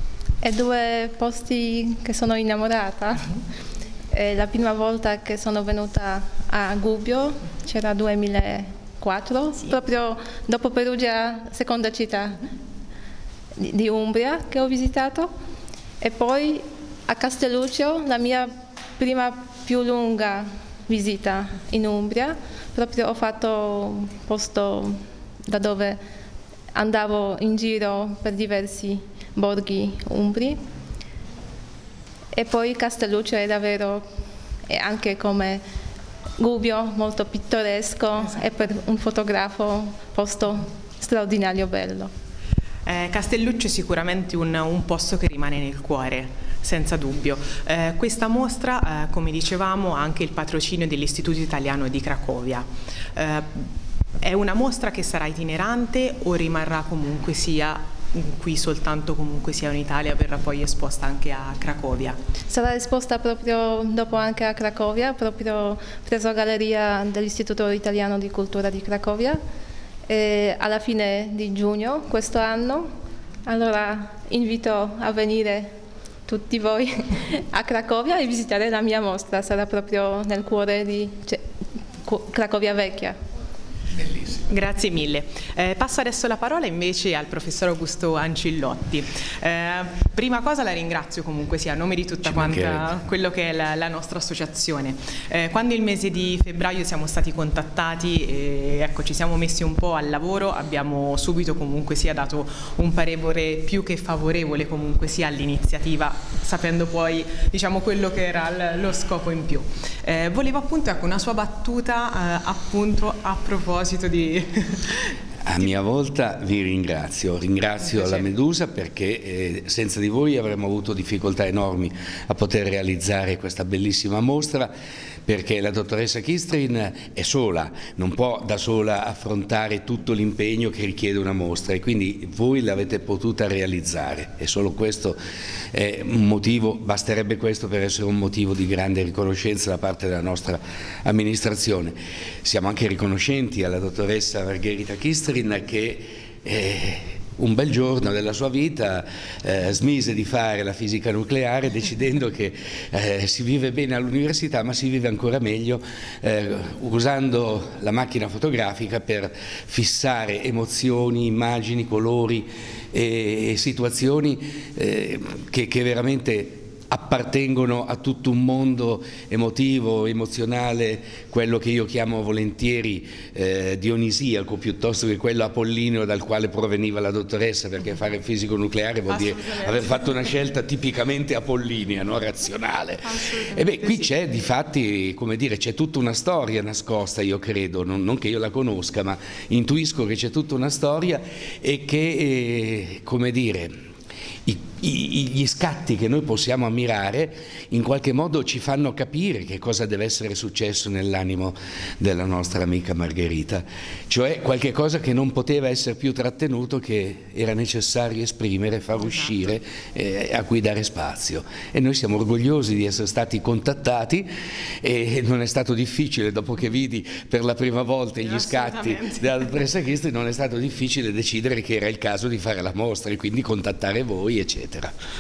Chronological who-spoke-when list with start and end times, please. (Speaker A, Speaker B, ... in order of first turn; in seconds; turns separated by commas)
Speaker A: 0.4-3.3, Speaker A: 4.1-12.4, Speaker A: 13.6-15.3, Speaker A: 16.0-25.0, Speaker A: 25.5-26.0, Speaker A: 26.7-30.6, Speaker A: 32.3-34.0, Speaker A: 34.7-35.6, Speaker A: 36.4-42.1, Speaker B: 42.9-53.7, Speaker B: 54.2-62.2, Speaker A: 62.5-69.4, Speaker A: 70.1-72.8, Speaker A: 73.5-75.7, Speaker A: 76.3-81.4, Speaker A: 82.0-83.2, Speaker B: 84.4-115.1, Speaker C: 92.3-92.9, Speaker C: 115.5-124.7, Speaker B: 117.9-118.2, Speaker C: 125.3-135.2, Speaker C: 135.7-193.8, Speaker B: 179.1-180.1, Speaker B: 183.2-184.0, Speaker C: 194.5-214.3, Speaker B: 209.0-209.3, Speaker C: 214.8-224.9, Speaker B: 218.2-219.5